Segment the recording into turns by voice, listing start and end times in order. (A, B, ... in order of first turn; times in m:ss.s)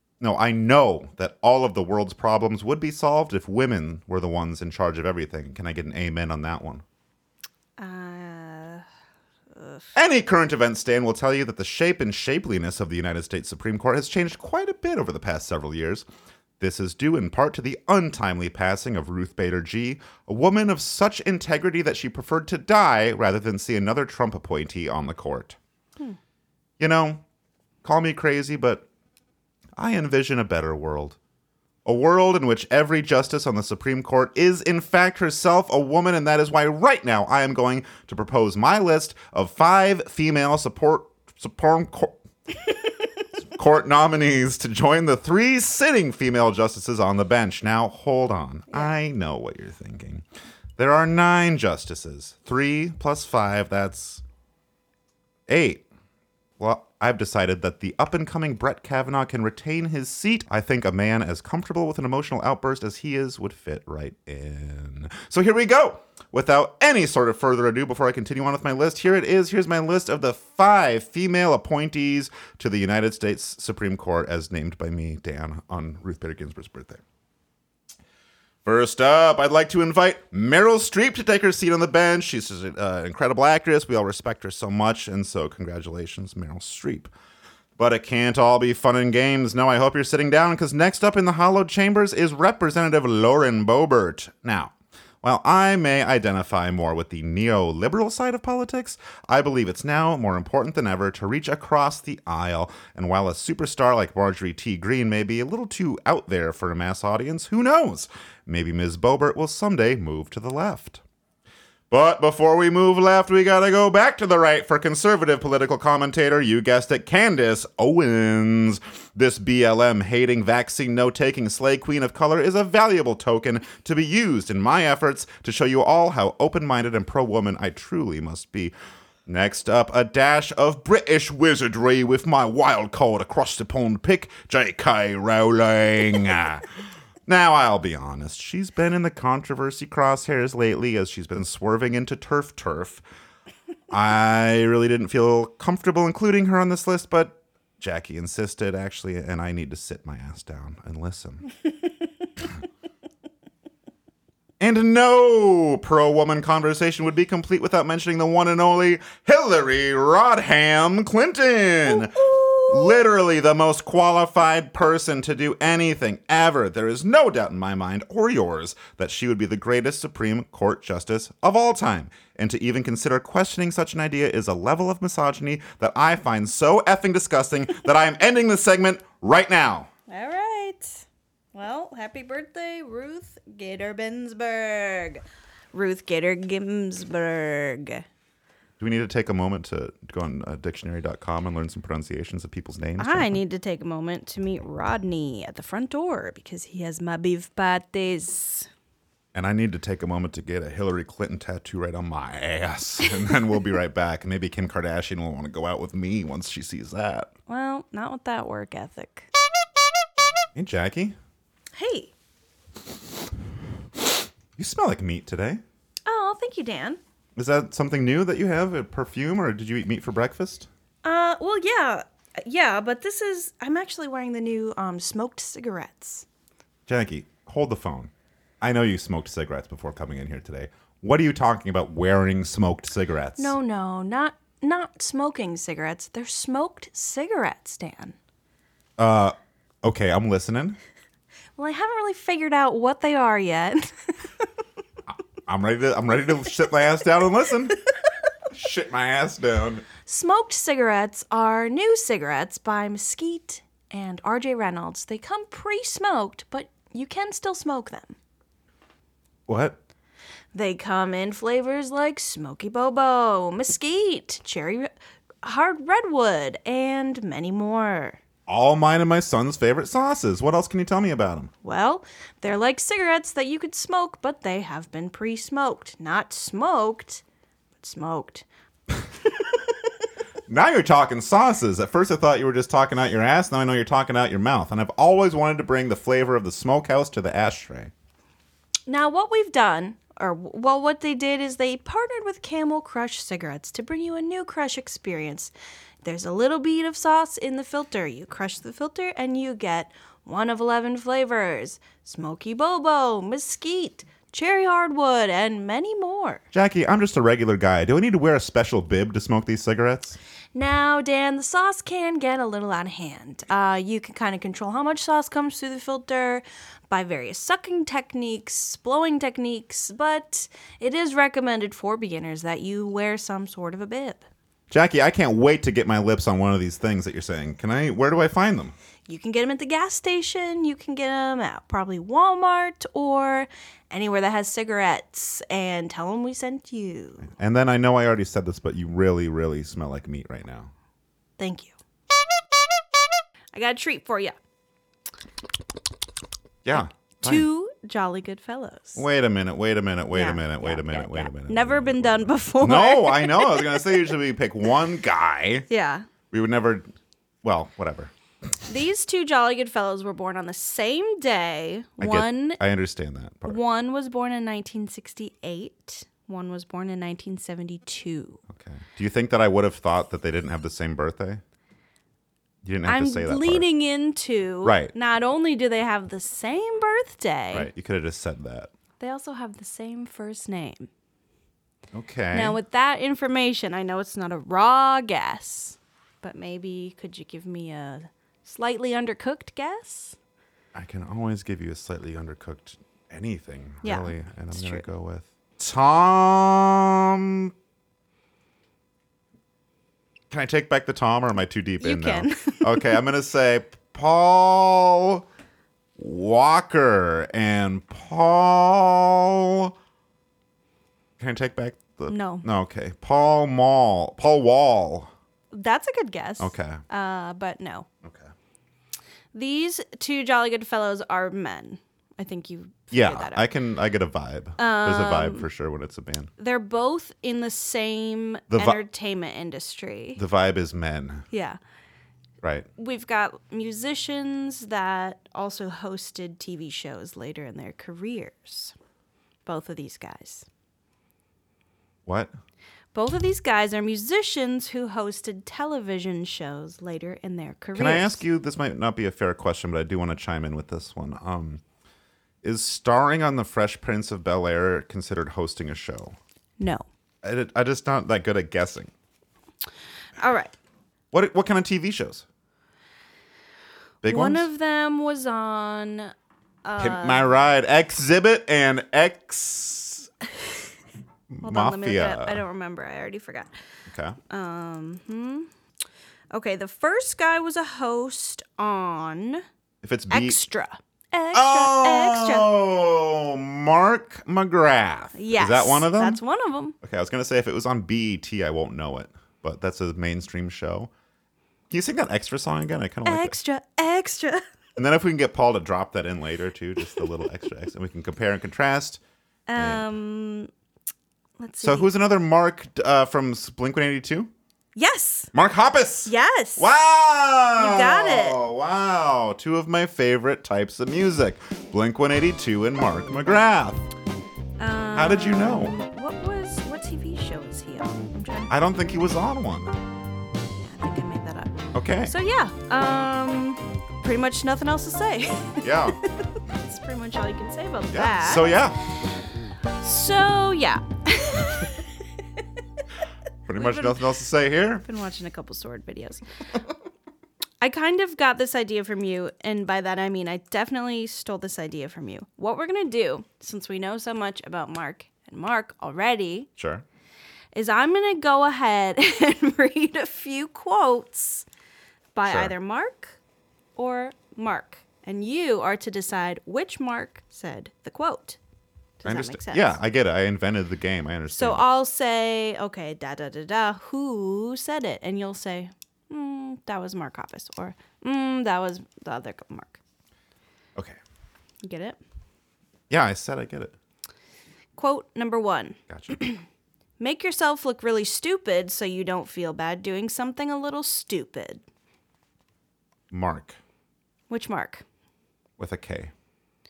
0:00.2-0:06.8 A
0:07.8-0:08.8 B
0:09.6-0:09.9 B
0:09.9-0:16.1 A
0:16.6-0:25.6 A
0:26.8-0:27.2 A
0:27.8-0:28.9 A
0:29.8-0:31.2 A
0:31.8-0:42.2 A
0:43.4-0:50.2 A
0:50.8-0:54.2 A
0:55.5-0:55.8 A
0:56.6-1:17.0 A
1:18.6-1:27.1 A
1:27.8-1:51.0 A
1:51.9-2:08.7 A
2:09.3-2:16.7 A
2:17.2-2:23.0 A
2:23.9-2:31.4 A
2:34.6-2:59.9 A
2:41.8-2:43.0 B
3:00.1-3:05.2 B
3:05.7-3:08.0 B
3:08.8-3:13.4 A
3:13.0-3:18.7 B
3:19.3-3:27.3 A
3:27.5-3:29.3 B
3:30.6-3:31.2 A
3:31.8-3:32.1 B
3:34.6-3:35.6 A
3:36.1-3:37.0 B
3:37.4-3:40.7 A
3:41.0-3:46.2 B
3:46.9-3:53.6 A
3:53.4-3:58.2 B
3:59.0-4:00.8 A
4:01.6-4:04.1 B
4:05.4-4:07.8 A
4:08.5-4:09.8 A
4:10.1-4:18.2 B
4:19.5-4:19.8 A
4:20.5-4:24.9 B
4:25.4-4:28.2 B
4:28.5-4:31.5 A
4:31.6-4:37.2 B
4:37.8-4:38.4 B
4:40.5-4:47.9 A
4:48.9-4:55.5 B
4:56.0-5:06.4 B
5:06.5-5:10.2 A
5:10.6-5:24.2 B
5:24.7-5:28.7 A
5:29.1-5:37.3 B
5:37.2-5:40.7 A
5:41.4-5:41.7 B
5:43.5-5:44.3 B
5:46.6-5:47.4 A
5:46.8-5:49.0 B
5:49.0-5:55.7 A
5:50.1-5:53.8 B
5:55.7-5:56.1 B
5:56.3-5:56.9 A
5:57.4-5:58.1 A
5:58.7-6:02.6 B
6:02.0-6:03.6 A
6:03.4-6:08.4 B
6:08.5-6:11.4 A
6:12.6-6:13.7 A
6:12.9-6:17.7 B
6:14.6-6:14.9 A
6:17.5-6:18.7 A
6:19.0-6:20.9 B
6:21.9-6:22.6 A
6:22.3-6:30.2 B
6:30.7-6:37.5 A
6:33.8-6:34.8 B
6:40.3-6:45.2 A
6:41.8-6:43.0 B
6:46.0-6:49.7 A
6:51.2-6:55.1 A
6:52.1-6:52.4 B
6:55.5-6:57.9 B
6:56.4-6:56.8 A
6:58.0-6:58.3 A
6:59.3-7:03.4 B
7:02.9-7:06.3 A
7:04.6-7:05.5 B
7:06.4-7:10.2 B
7:08.5-7:08.8 A
7:10.2-7:11.3 A
7:11.3-7:11.6 B
7:12.4-7:12.7 A
7:12.8-7:18.7 B
7:19.4-7:20.5 B
7:22.1-7:22.3 A
7:22.9-7:28.2 B
7:27.8-7:31.6 A
7:32.4-7:36.2 A
7:36.6-7:36.8 B
7:37.2-7:38.9 A
7:40.2-7:40.5 B
7:41.1-7:42.2 A
7:44.0-7:44.5 A
7:44.0-7:46.1 B
7:46.6-7:47.3 B
7:46.8-7:50.1 A
7:51.3-7:52.4 A
7:51.4-7:53.5 B
7:53.9-7:54.2 A
7:54.3-7:55.5 B
7:56.3-7:59.4 B
7:59.8-8:00.4 A
8:00.1-8:02.5 B
8:01.3-8:06.2 A
8:05.1-8:06.8 B
8:06.8-8:10.9 A
8:11.7-8:13.3 A
8:13.1-8:14.4 B
8:14.8-8:19.0 A
8:19.5-8:20.5 B
8:19.6-8:19.8 A
8:21.4-8:21.9 B
8:21.6-8:24.3 A
8:24.8-8:25.3 B
8:25.3-8:33.9 A
8:26.1-8:26.7 B
8:27.6-8:28.4 B
8:34.6-8:38.5 B
8:34.9-8:35.7 A
8:38.5-8:39.7 A
8:40.6-8:46.0 B
8:41.7-8:42.1 A
8:45.6-8:46.0 A
8:46.5-8:48.6 B
8:47.9-8:48.8 A
8:49.8-8:51.8 B
8:53.5-8:54.8 A
8:53.6-8:54.0 B
8:54.8-8:56.2 B
8:57.6-9:06.5 B
9:06.6-9:06.8 A
9:07.5-9:11.4 B
9:12.1-9:13.2 B
9:12.2-9:12.5 A
9:13.8-9:18.4 B
9:19.0-9:19.8 B
9:19.0-9:21.6 A
9:21.3-9:29.8 B
9:31.6-9:32.0 B
9:32.9-9:33.7 A
9:34.8-9:36.4 B
9:35.9-9:36.2 A
9:37.0-9:41.6 B
9:43.1-9:43.6 A
9:44.3-9:44.8 B
9:45.6-9:46.1 A